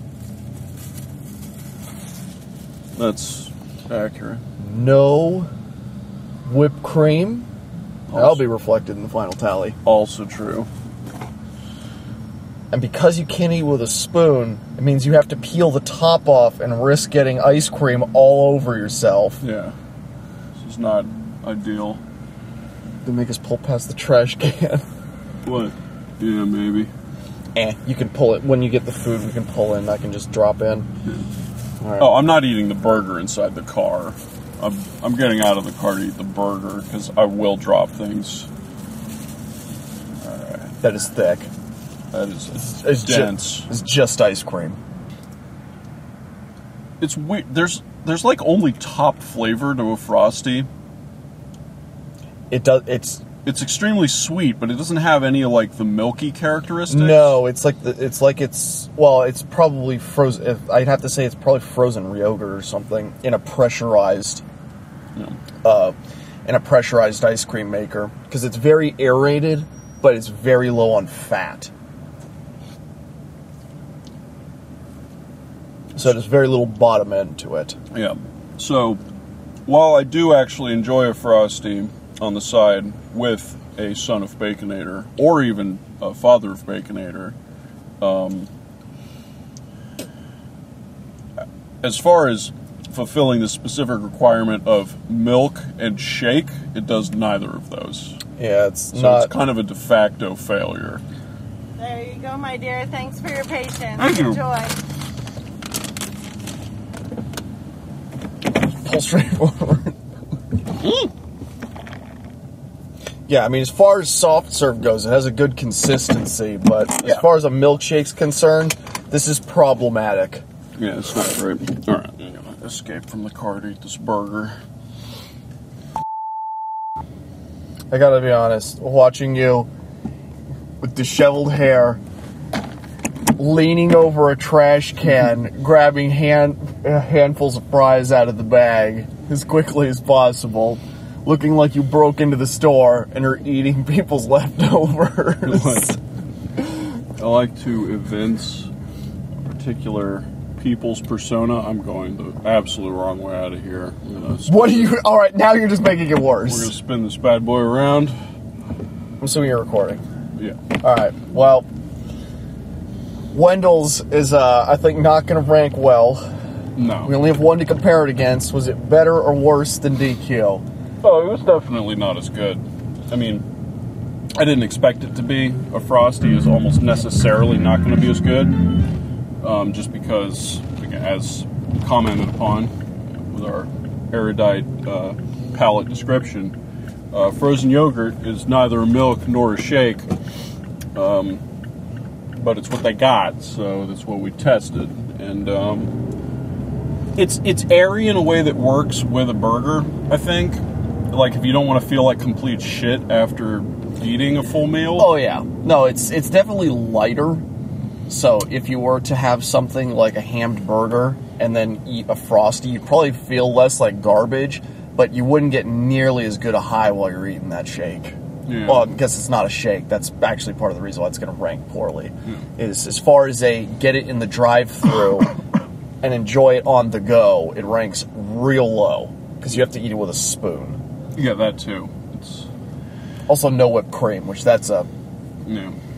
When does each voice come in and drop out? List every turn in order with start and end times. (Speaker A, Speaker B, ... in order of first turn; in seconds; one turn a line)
Speaker A: 3.0-4.4
Speaker B: 4.6-5.5
Speaker B: 6.5-7.5
Speaker A: 8.1-8.4
Speaker B: 8.1-9.8
Speaker A: 9.8-10.7
Speaker B: 12.7-19.4
Speaker A: 19.4-19.8
Speaker A: 20.6-22.0
Speaker B: 23.1-24.8
Speaker A: 25.4-26.9
Speaker B: 27.6-30.9
Speaker B: 31.8-32.2
Speaker A: 32.0-38.5
Speaker A: 40.2-40.8
Speaker B: 40.8-41.5
Speaker A: 42.1-43.7
Speaker B: 42.5-44.8
Speaker A: 47.0-50.7
Speaker B: 52.5-53.2
Speaker A: 53.5-57.4
Speaker B: 56.9-64.4
Speaker A: 65.2-65.4
Speaker B: 65.6-71.7
Speaker B: 76.0-77.8
Speaker A: 77.9-79.0
Speaker A: 79.7-87.4
Speaker A: 88.0-88.5
Speaker A: 91.8-98.2
Speaker B: 98.4-99.3
Speaker A: 98.9-101.0
Speaker C: 101.8-104.8
Speaker A: 104.0-104.4
Speaker B: 108.6-110.0
Speaker B: 113.3-120.4
Speaker A: 120.8-124.6
Speaker B: 127.9-129.7
Speaker B: 130.8-132.0
Speaker B: 133.4-146.0
Speaker A: 145.4-146.0
Speaker A: 147.2-148.7
Speaker A: 149.4-155.0
Speaker B: 154.5-156.7
Speaker A: 156.5-158.2
Speaker B: 159.2-160.0
Speaker B: 160.8-161.7
Speaker B: 163.3-166.3
Speaker A: 166.8-167.2
Speaker B: 167.0-170.6
Speaker A: 171.0-173.5
Speaker A: 174.3-178.7
Speaker A: 179.4-186.6
Speaker A: 187.1-190.1
Speaker A: 190.9-191.4
Speaker A: 192.3-195.9
Speaker A: 197.2-205.2
Speaker B: 205.0-207.4
Speaker B: 208.1-225.4
Speaker A: 218.5-218.9
Speaker B: 226.0-230.8
Speaker A: 231.2-232.5
Speaker B: 233.3-234.9
Speaker A: 235.4-235.8